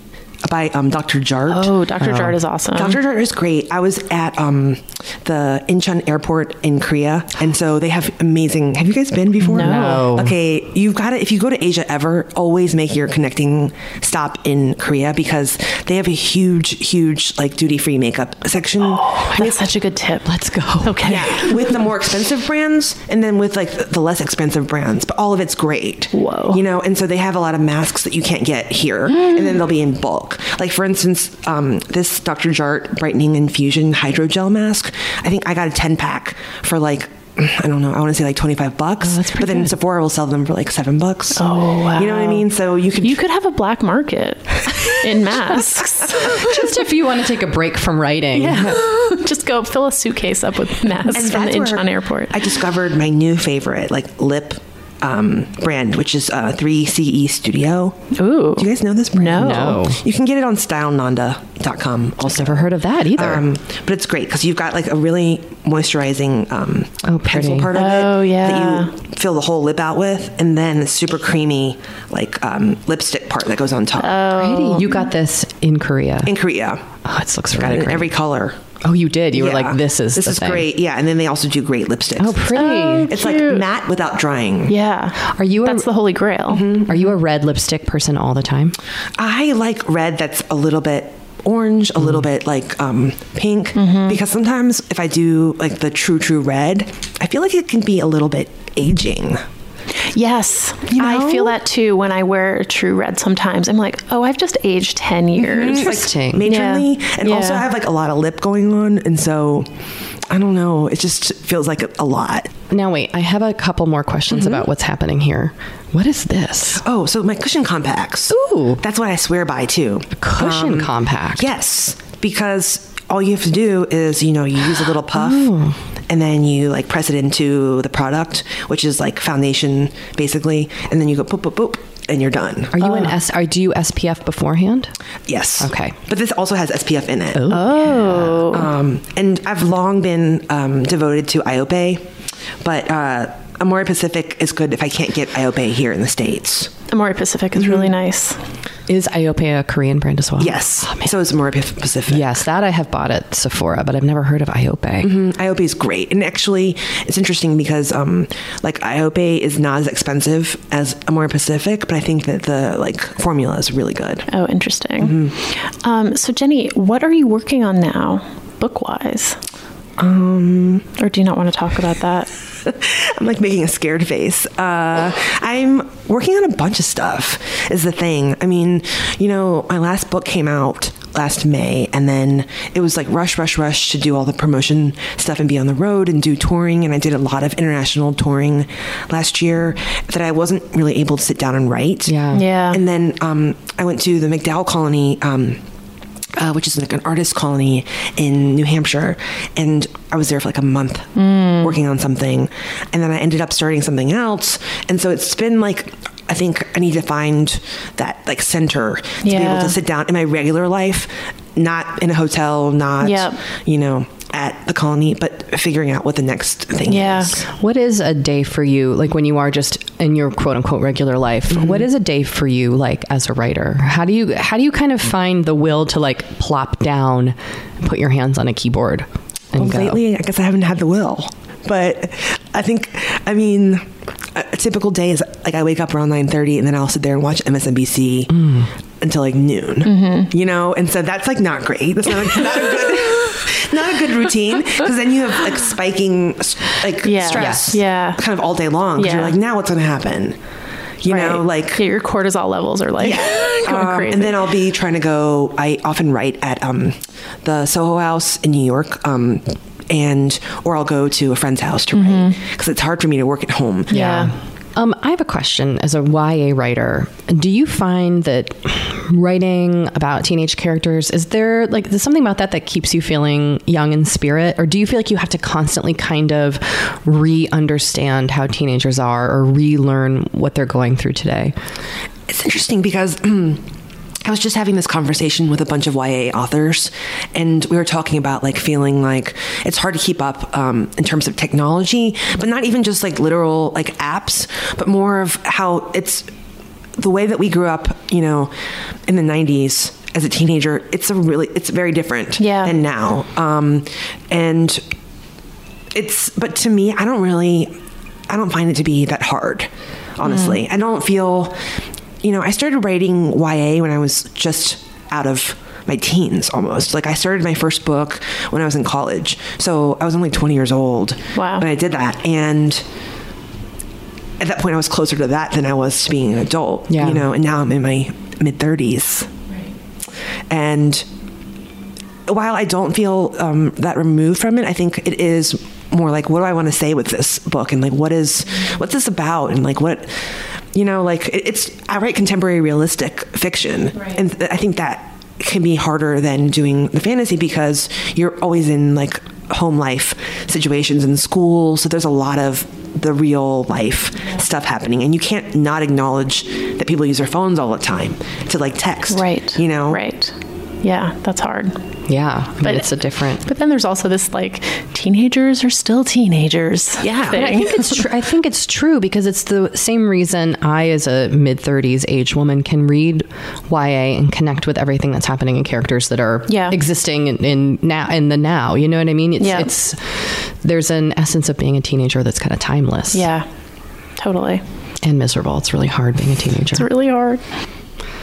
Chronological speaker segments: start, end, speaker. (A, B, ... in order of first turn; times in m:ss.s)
0:00.4-0:01.7 A
0:01.5-0:03.0 B
0:02.0-0:02.4 C
0:02.7-0:19.5 A
0:09.4-0:10.1 B
0:09.5-0:10.3 C
0:18.8-0:20.3 B
0:20.2-0:21.2 C
0:20.8-0:21.7 B
0:21.0-0:43.2 A
0:26.1-0:26.6 B
0:29.2-0:29.6 B
0:39.0-0:39.7 C
0:41.3-0:42.5 B
0:43.0-0:46.7 B
0:46.3-0:48.8 C
0:48.3-0:52.6 B
0:51.1-0:58.0 A
0:58.2-0:59.8 B
0:58.6-1:14.2 A
0:59.4-1:00.0 C
1:02.2-1:03.4 C
1:07.0-1:07.7 C
1:07.7-1:08.9 B
1:14.0-1:15.1 B
1:14.3-1:16.3 C
1:16.2-1:16.9 A
1:17.0-1:18.1 C
1:17.5-1:18.6 A
1:18.8-1:20.7 C
1:19.3-1:22.5 A
1:22.2-1:23.1 C
1:22.5-1:23.6 B
1:23.1-1:24.7 A
1:24.7-1:26.8 B
1:25.3-1:25.8 C
1:26.5-1:27.0 A
1:26.8-1:28.8 C
1:29.2-1:39.4 A
1:33.7-1:34.2 B
1:40.1-1:47.7 B
1:40.9-1:41.6 A
1:45.4-1:49.7 A
1:45.7-1:46.5 C
1:50.3-1:52.5 A
1:52.7-1:56.8 C
1:54.3-1:54.6 A
1:56.8-2:05.5 A
1:58.3-1:58.8 C
2:00.2-2:01.5 C
2:05.1-2:05.8 C
2:06.1-2:13.1 A
2:12.7-2:14.9 C
2:15.3-2:17.5 A
2:15.6-2:16.0 C
2:17.3-2:18.4 C
2:17.5-2:18.7 B
2:18.4-2:22.1 A
2:22.6-2:26.7 A
2:26.9-2:28.4 B
2:27.6-2:27.9 A
2:28.9-2:31.1 C
2:30.4-2:32.3 A
2:32.1-2:35.1 C
2:35.0-2:44.3 A
2:44.3-2:49.4 B
2:45.0-2:45.3 A
2:50.0-2:50.9 A
2:51.0-2:52.3 B
2:52.6-3:12.2 A
3:12.0-3:12.4 C
3:12.3-3:12.8 B
3:12.7-3:15.6 A
3:16.4-3:37.4 A
3:21.2-3:21.8 B
3:29.2-3:29.8 B
3:33.0-3:33.4 B
3:36.9-3:37.4 B
3:37.5-3:50.0 C
3:41.5-3:41.9 A
3:49.5-3:58.3 A
3:58.3-3:58.7 C
3:59.0-4:10.4 A
3:59.8-4:00.3 B
4:07.0-4:08.2 B
4:07.3-4:07.8 C
4:09.0-4:09.4 B
4:11.0-4:11.8 A
4:11.0-4:14.5 B
4:13.0-4:24.0 A
4:21.9-4:22.4 B
4:23.9-4:24.3 B
4:23.9-4:41.5 C
4:42.3-4:43.6 A
4:44.2-4:56.3 A
4:57.0-4:58.5 A
4:59.0-5:04.8 A
5:02.4-5:02.8 B
5:05.9-5:07.7 A
5:08.3-5:11.6 A
5:10.2-5:10.6 B
5:12.2-5:22.8 A
5:21.4-5:21.7 B
5:24.4-5:29.3 A
5:26.9-5:27.2 C
5:30.5-5:31.0 A
5:32.3-5:40.1 A
5:40.7-6:00.0 A
5:59.1-6:01.7 B
6:02.1-6:03.4 C
6:02.6-6:02.9 B
6:03.4-6:08.0 B
6:07.0-6:07.4 A
6:07.3-6:23.3 C
6:16.5-6:16.8 B
6:19.4-6:19.7 B
6:23.1-6:23.4 B
6:24.2-6:24.6 B
6:25.0-6:26.9 C
6:26.7-6:27.4 B